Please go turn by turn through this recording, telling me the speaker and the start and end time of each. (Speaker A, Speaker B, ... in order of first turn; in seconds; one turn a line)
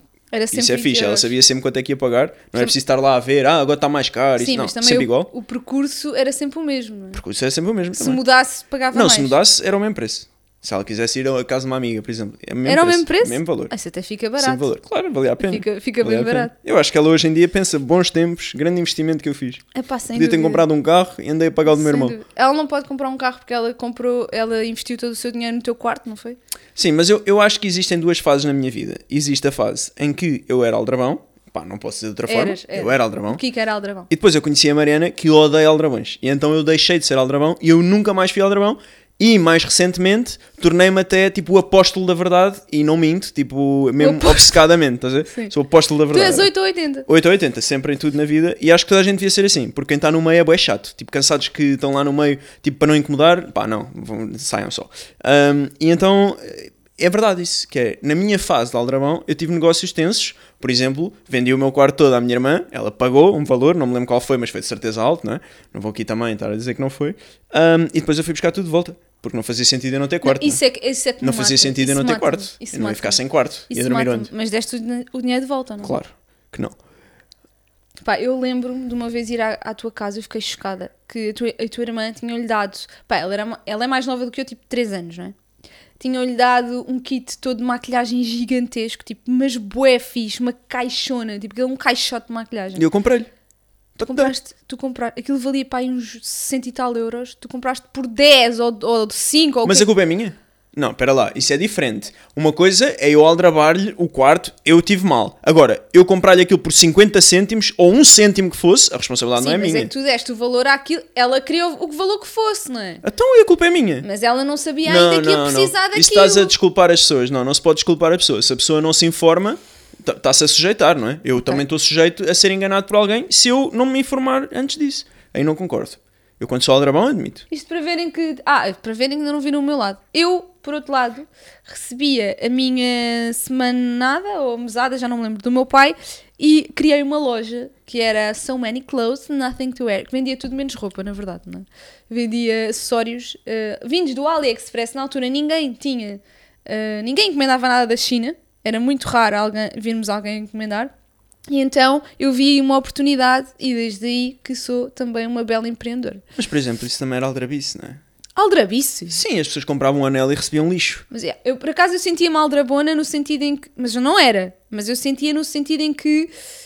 Speaker A: 0.3-1.3
Speaker B: 0.5-5.3
Speaker A: 4.4-7.2
Speaker B: 7.2-8.2
Speaker A: 7.9-9.4
Speaker B: 8.9-13.7
Speaker A: 12.7-14.7
Speaker B: 14.4-22.2
Speaker A: 15.4-16.5
Speaker A: 19.7-20.6
Speaker A: 21.7-26.4
Speaker B: 26.8-33.4
Speaker A: 32.3-34.1
Speaker B: 34.1-46.5
Speaker A: 44.0-44.6
Speaker A: 46.1-47.1
Speaker B: 47.1-70.6
Speaker A: 70.2-76.0
Speaker B: 71.2-74.3
Speaker B: 75.8-76.8
Speaker A: 78.0-85.3
Speaker A: 86.0-92.8
Speaker B: 92.8-93.3
Speaker B: 94.0-94.3
Speaker A: 94.0-99.9
Speaker B: 99.7-109.9
Speaker A: 109.4-113.0
Speaker B: 113.0-114.1
Speaker A: 114.0-116.5
Speaker B: 114.8-127.5
Speaker A: 127.5-150.9
Speaker A: 151.5-156.2
Speaker B: 156.4-158.0
Speaker A: 158.4-159.2
Speaker B: 159.1-161.1
Speaker A: 161.1-166.3